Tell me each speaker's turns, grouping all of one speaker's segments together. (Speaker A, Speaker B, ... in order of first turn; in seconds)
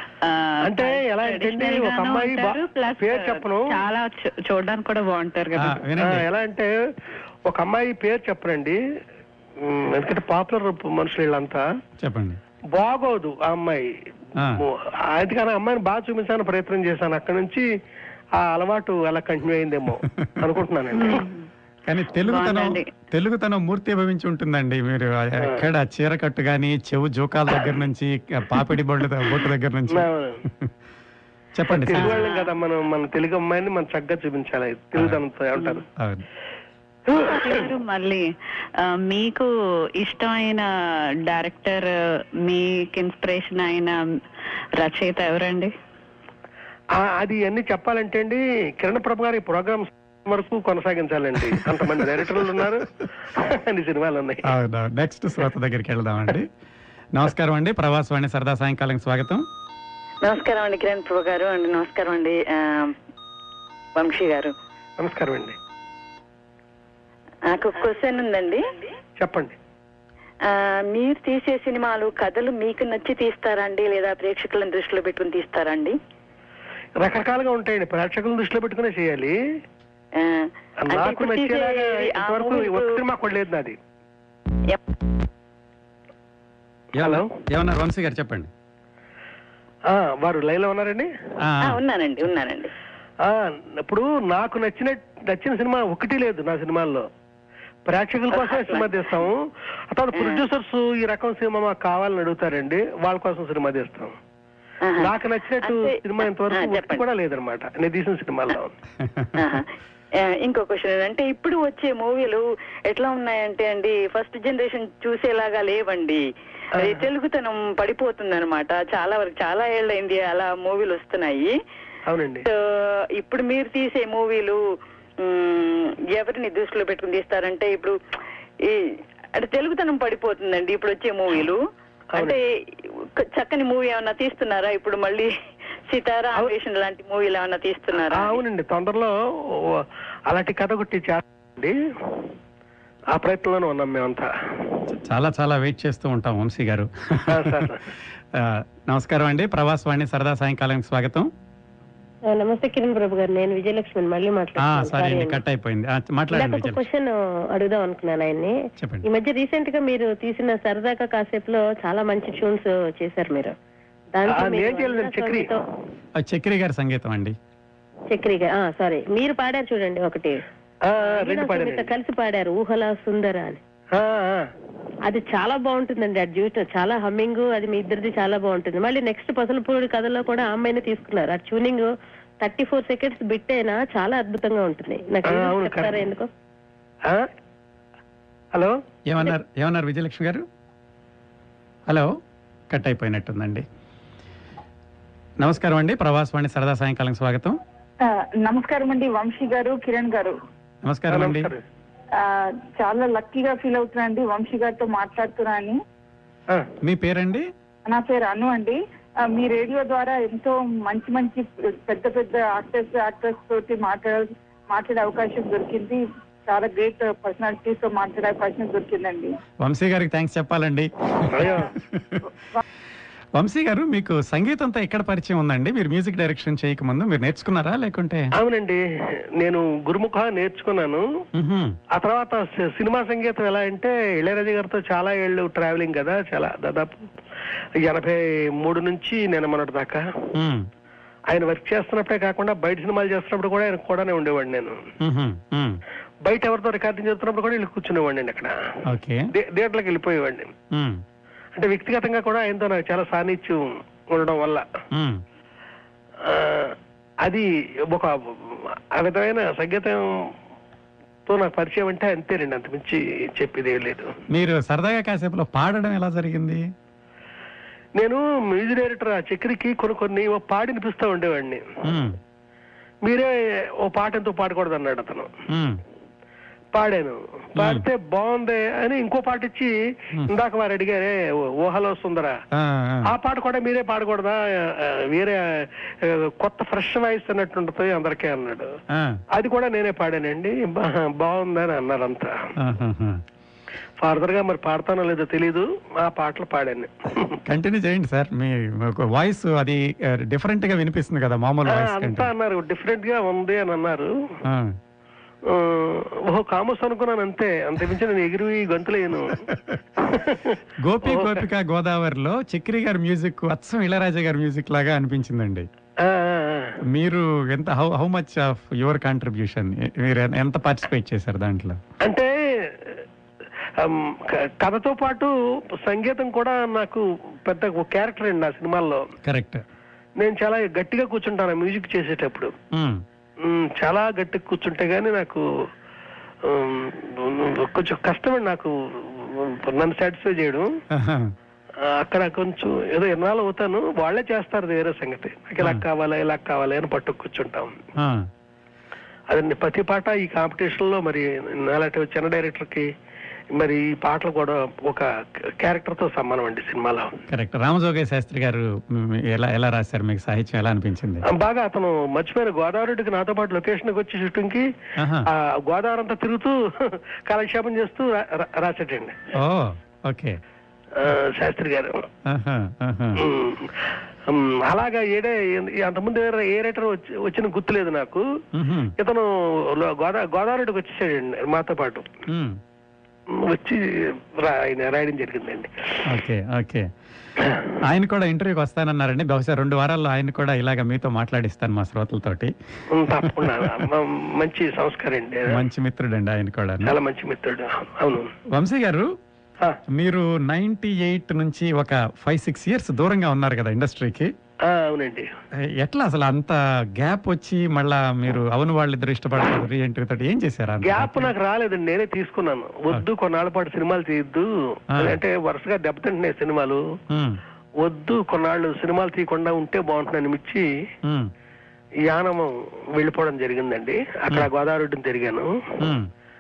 Speaker A: 0.2-5.8, 20.9-21.5, 22.2-22.9, 32.0-32.5, 35.6-35.8, 37.1-38.2, 38.9-39.5, 40.0-40.7, 41.3-41.9, 42.5-44.0, 44.8-45.7
Speaker B: 0.6-3.8, 6.0-6.7, 7.5-8.8, 9.6-11.7, 12.7-13.9, 14.6-17.7, 18.4-21.3, 29.9-30.4, 31.7-35.8, 37.1-37.6, 47.0-54.5, 65.0-65.6, 69.2-69.6, 77.0-79.3, 80.9-83.8, 87.0-87.3, 89.9-91.1, 93.2-97.1, 97.9-104.2, 105.0-108.7, 116.8-117.1, 122.1-122.5, 137.9-141.8, 143.1-144.3, 147.3-147.8, 164.3-165.5, 170.9-171.9, 174.0-174.5, 185.3-185.9, 201.1-201.6, 221.3-221.7, 228.4-228.8, 229.4-231.0, 231.9-237.1, 237.8-240.0, 241.3-244.8, 246.2-248.5, 249.3-250.5, 251.6-254.7, 256.2-260.0, 261.3-264.1, 268.0-271.6, 273.1-273.3, 273.8-275.3, 276.7-279.7, 280.3-282.4, 283.1-288.7, 289.3-292.3, 294.0-297.4, 301.7-304.1, 305.5-309.4, 310.1-311.4, 316.0-316.8, 322.1-323.0, 323.8-325.3, 325.8-329.1, 330.2-332.5, 333.4-335.4, 336.4-340.8, 341.9-347.7, 349.3-352.9, 353.6-355.1, 355.6-357.1, 361.3-364.7, 365.3-369.2, 371.0-372.1, 373.2-378.2, 379.0-382.1, 383.4-383.8, 384.4-385.7, 392.9-395.6, 396.9-398.3, 404.7-405.3, 410.9-416.8, 417.8-420.6, 422.1-425.5
Speaker C: 5.6-6.3, 12.0-12.4, 21.9-30.1, 31.6-32.2, 36.0-36.2, 54.5-56.5, 57.1-59.5, 87.0-88.5, 91.5-91.8, 109.0-109.3, 144.9-147.6, 148.4-151.3, 154.6-156.8, 158.8-159.1, 166.2-167.3, 189.1-190.4, 192.7-193.7, 195.4-197.6, 200.8-201.5, 206.8-207.5, 219.6-222.1, 223.4-228.3, 231.4-231.8, 240.4-240.7, 245.0-245.8, 248.9-249.3, 250.7-251.0, 254.9-255.2, 264.3-266.6, 271.9-272.2, 275.5-275.8, 277.6-277.8, 282.5-283.1, 288.9-289.2, 292.6-293.2, 297.5-302.3, 304.5-304.8, 310.8-315.7, 316.9-321.8, 329.2-329.6, 332.7-333.0, 340.9-341.3, 348.0-348.3, 357.3-361.2, 365.0-365.3, 369.4-370.4, 372.3-373.2, 378.6-378.9, 382.3-382.6, 386.1-386.9, 387.9-392.5, 393.2-393.7, 395.5-396.9, 398.5-399.1, 399.9-404.3, 405.8-411.3, 417.1-417.4, 421.1-421.3, 425.8-426.1
Speaker D: 60.2-63.0, 64.0-64.5, 67.5-68.6, 70.4-76.0, 80.2-83.0, 91.7-92.7, 98.3-99.1, 100.2-100.4, 104.8-106.0, 106.5-107.0, 109.4-109.7, 110.2-116.3, 116.8-121.5, 122.5-124.6, 125.2-128.0, 128.6-131.6, 132.2-132.4, 133.2-135.3, 135.9-138.4
Speaker E: 152.3-155.4, 156.3-158.6, 159.1-163.5, 164.2-165.6, 168.1-170.4, 171.0-173.6, 175.1-181.9, 182.4-186.3
Speaker F: 198.0-200.4, 202.2-205.8, 207.9-208.8, 209.3-219.3